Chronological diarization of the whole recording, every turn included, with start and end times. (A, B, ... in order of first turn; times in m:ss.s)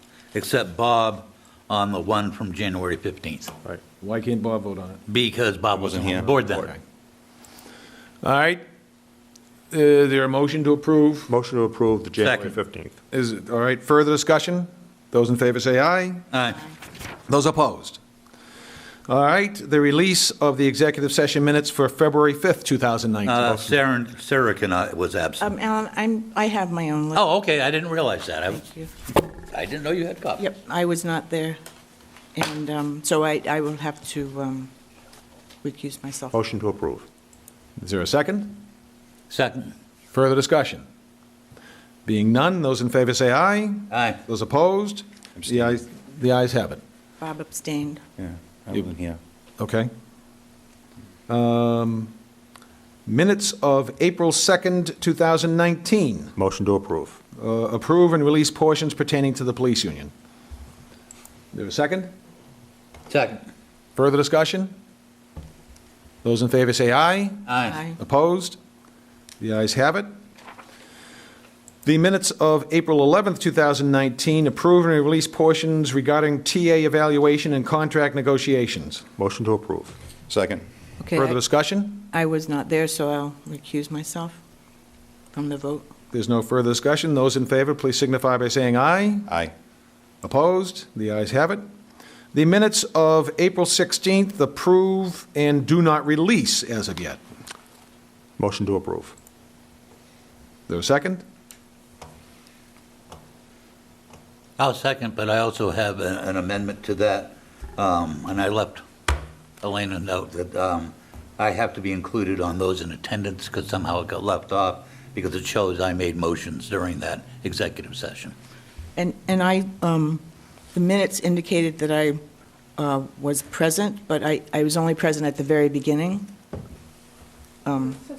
0:00.3-0:03.5 A
0:04.0-0:05.0 B
0:05.1-0:06.7 A
0:05.7-0:06.4 C
0:06.4-0:06.8 B
0:08.2-0:08.6 B
0:09.7-0:11.3 B
0:11.3-0:13.0 C
0:12.2-0:12.6 A
0:13.1-0:16.2 B
0:16.3-0:16.6 A
0:17.3-0:18.0 B
0:19.1-0:23.7 B
0:23.2-0:25.5 A
0:25.4-0:27.2 D
0:27.2-0:28.6 A
0:28.5-0:28.9 D
0:29.5-0:30.4 A
0:30.4-0:31.6 D
0:32.4-0:34.7 D
0:35.6-0:36.4 D
0:36.3-0:37.1 C
0:37.8-0:38.5 B
0:39.3-0:39.7 A
0:40.1-0:40.8 B
0:42.1-0:46.8 B
0:43.9-0:44.2 A
0:45.4-0:45.8 C
0:47.2-0:48.0 D
0:48.2-0:49.2 C
0:49.6-0:49.9 B
0:51.3-0:52.1 B
0:53.1-0:56.3 B
0:56.4-0:57.2 C
0:57.4-1:00.1 B
1:01.5-1:02.1 B
1:03.1-1:03.4 A
1:04.0-1:04.7 B
1:06.2-1:07.4 B
1:07.5-1:07.8 A
1:08.0-1:08.6 B
1:09.4-1:10.1 B
1:11.8-1:19.0 B
1:19.2-1:20.6 C
1:21.0-1:21.4 D
1:21.1-1:22.1 B
1:22.1-1:24.4 D
1:25.3-1:25.9 D
1:26.1-1:29.3 B
1:29.3-1:29.5 C
1:30.2-1:31.6 B
1:32.3-1:37.2 B
1:38.4-1:39.2 C
1:40.7-1:41.2 B
1:44.6-1:48.8 A
1:49.6-1:58.3 A
1:59.0-2:00.2 D
2:00.7-2:02.2 D
2:02.8-2:06.3 D
2:07.6-2:08.0 D